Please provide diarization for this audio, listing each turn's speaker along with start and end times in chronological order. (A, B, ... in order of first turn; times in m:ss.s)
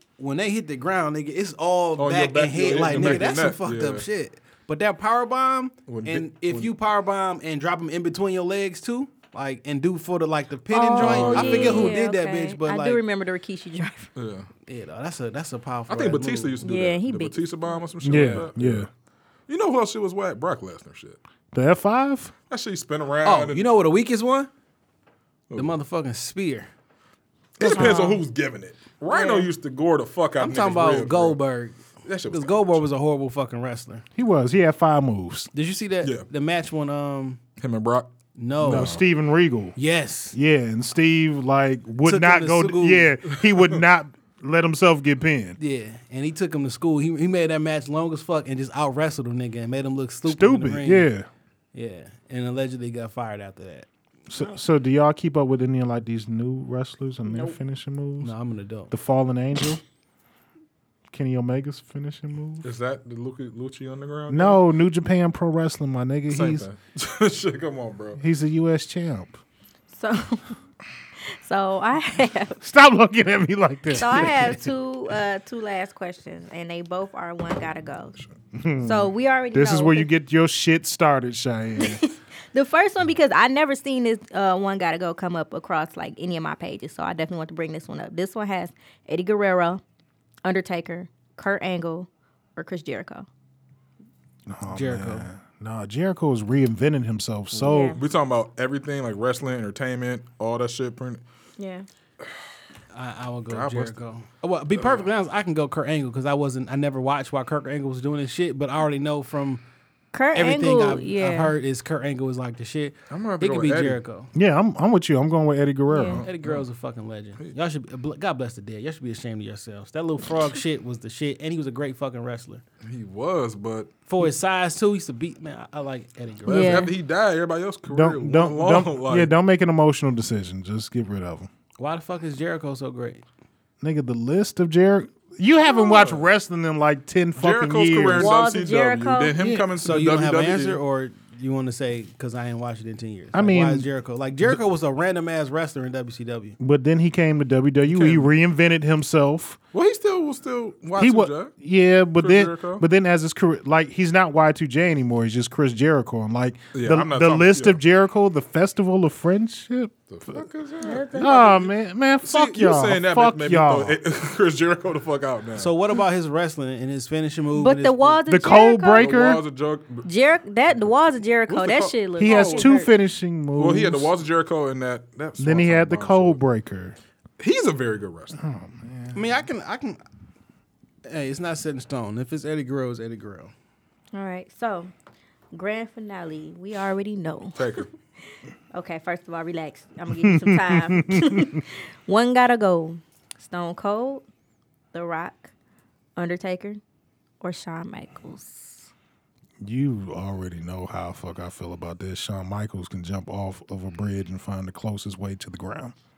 0:00.2-0:13.0 A
0:02.0-0:04.0 B
0:05.9-0:06.7 B
0:10.7-0:14.1 C
0:11.0-0:12.0 B
0:14.2-0:14.5 B
0:14.6-0:16.6 A
0:15.9-0:18.9 B
0:16.6-0:17.7 C
0:18.0-0:18.9 D
0:19.5-0:21.2 B
0:21.5-0:22.3 D
0:22.5-0:23.7 B
0:23.2-0:24.5 A
0:25.5-0:25.7 B
0:25.5-0:26.7 A
0:27.6-0:31.4 B
0:27.6-0:28.0 D
0:27.6-0:28.2 C
0:29.1-0:29.5 C
0:30.4-0:34.0 A
0:32.0-0:32.8 B
0:34.2-0:35.5 D
0:35.5-0:37.4 A
0:37.6-0:39.0 B
0:38.4-0:39.0 A
0:38.6-0:39.8 D
0:39.8-0:40.4 A
0:40.3-0:45.6 D
0:42.0-0:43.2 A
0:45.6-0:51.1 A
0:50.3-0:51.3 D
0:51.7-0:53.9 A
0:54.3-0:58.3 D
0:57.2-0:57.6 C
0:58.2-0:58.9 A
0:58.9-0:59.8 D
1:01.1-1:02.7 D
1:02.6-1:04.6 B
1:04.3-1:06.7 D
1:06.3-1:08.2 B
1:08.2-1:09.4 D
1:09.9-1:10.5 C
1:11.4-1:12.6 C
1:12.6-1:14.6 D
1:13.9-1:18.2 C
1:18.5-1:22.1 D
1:18.8-1:20.1 C
1:21.8-1:29.8 C
1:30.4-1:33.3 C
1:34.5-1:38.0 D
1:34.7-1:35.3 A
1:37.6-1:41.2 B
1:37.6-1:38.0 C
1:41.6-1:41.8 C
1:42.9-1:49.6 A
1:43.5-1:44.0 B
1:44.7-1:45.1 B
1:50.1-1:51.5 C
1:50.3-1:54.3 A
1:53.1-1:54.0 B
1:54.3-1:56.2 D
1:55.9-1:56.2 C
1:56.1-1:56.6 B
1:56.2-2:02.6 A
2:02.8-2:03.9 B
2:04.1-2:06.9 A
2:06.4-2:09.3 B
2:06.5-2:06.9 C
2:07.9-2:11.5 D
2:11.8-2:13.2 A
2:13.8-2:18.4 D
2:15.8-2:16.2 B
2:17.4-2:20.8 B
2:18.1-2:19.3 C
2:19.4-2:26.6 A
2:23.3-2:23.9 D
2:26.6-2:29.6 D
2:27.9-2:28.3 B
2:29.7-2:31.6 B
2:31.0-2:40.4 D
2:32.2-2:32.8 B
2:36.7-2:37.8 B
2:40.1-2:45.7 B
2:40.8-2:41.3 C
2:41.2-2:44.0 D
2:45.6-2:48.2 A
2:47.5-2:49.2 C
2:48.2-2:49.4 D
2:49.0-2:50.1 B
2:50.0-2:52.9 C
2:51.5-2:52.7 B
2:52.2-2:54.1 D
2:53.6-2:56.4 B
2:55.4-2:57.0 D
2:57.4-2:58.4 B
2:58.4-2:59.2 D
2:59.1-3:00.0 A
3:01.0-3:03.5 A
3:04.1-3:04.9 C
3:05.5-3:07.8 C
3:07.5-3:07.9 B
3:08.7-3:14.2 C
3:10.2-3:11.6 D
3:14.9-3:15.5 C
3:16.2-3:16.8 C
3:17.4-3:18.9 C
3:19.6-3:25.9 D